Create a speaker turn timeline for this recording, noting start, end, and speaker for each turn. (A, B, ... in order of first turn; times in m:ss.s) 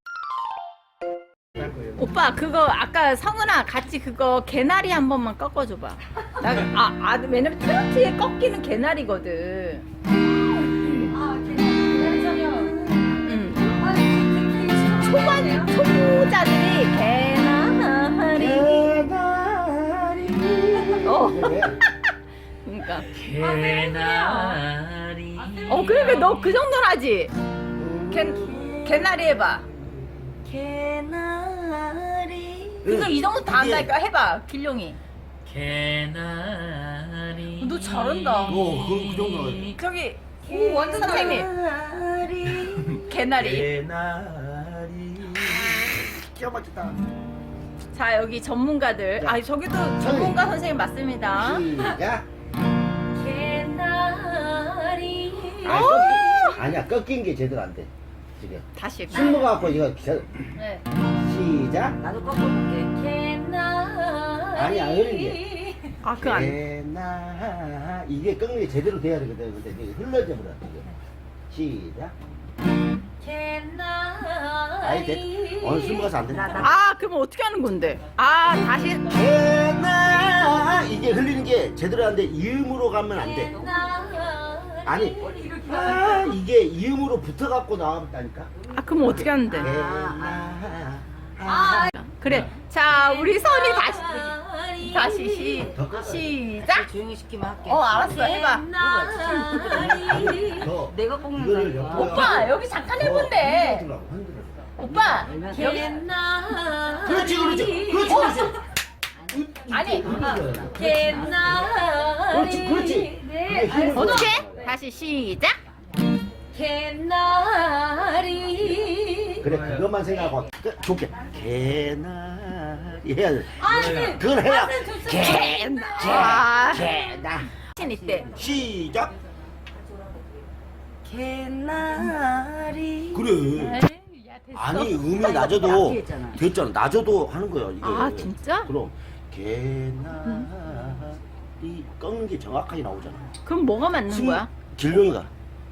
0:01.6-0:02.0 A
0:02.0-0:09.9 B
0:10.8-0:11.1 B
0:10.9-0:15.7 C
0:13.2-0:13.8 B
0:14.9-0:19.0 B
0:18.4-0:21.8 A
0:21.0-0:21.8 B
0:22.6-0:23.1 B
0:23.1-0:26.6 D
0:23.6-0:24.6 C
0:25.4-0:25.8 C
0:25.7-0:27.3 B
0:27.8-0:30.4 A
0:28.1-0:29.6 B
0:30.4-0:33.0 C
0:32.8-0:33.9 A
0:32.8-0:35.0 B
0:35.4-0:39.8 D
0:37.6-0:38.6 B
0:38.4-0:39.8 A
0:39.7-0:41.5 B
0:40.5-0:41.5 C
0:40.5-0:47.0 A
0:42.9-0:43.7 B
0:47.9-0:51.8 B
0:49.9-0:50.4 A
0:51.3-0:52.2 A
0:53.1-0:55.7 C
0:55.6-1:00.4 A
0:55.6-0:56.6 B
0:58.7-0:59.4 B
1:01.1-1:02.0 A
1:02.0-1:05.9 C
1:04.5-1:05.4 A
1:06.0-1:06.6 B
1:06.2-1:10.9 A
1:11.5-1:12.1 A
1:13.2-1:16.7 C
1:14.8-1:16.7 A
1:16.6-1:19.2 B
1:19.1-1:23.6 A
1:23.1-1:25.6 C
1:24.8-1:31.9 A
1:25.4-1:26.3 B
1:28.7-1:29.8 B
1:29.6-1:30.6 C
1:31.4-1:36.9 B
1:33.0-1:35.7 C
1:35.6-1:36.4 A
1:36.6-1:42.5 C
1:37.6-1:40.7 B
1:39.6-1:45.4 A
1:41.9-1:43.9 B
1:44.8-1:46.0 B
1:45.2-1:48.1 C
1:46.9-1:48.6 B
1:47.0-1:48.6 A
1:49.2-1:54.3 C
1:49.3-1:50.8 A
1:49.7-1:51.5 B
1:50.8-1:51.7 D
1:52.2-1:52.8 D
1:52.3-1:54.7 A
1:53.7-1:54.2 D
1:53.9-1:55.6 B
1:56.5-1:59.5 C
1:59.4-2:07.4 A
2:03.6-2:06.9 B
2:03.6-2:04.2 D
2:03.8-2:04.2 C
2:04.9-2:08.6 C
2:07.7-2:08.3 B
2:08.3-2:09.2 A
2:11.0-2:13.3 C
2:13.1-2:13.8 A
2:13.5-2:15.7 B
2:14.5-2:23.3 A
2:15.1-2:16.4 C
2:17.8-2:18.7 B
2:23.4-2:24.5 B
2:24.1-2:25.3 A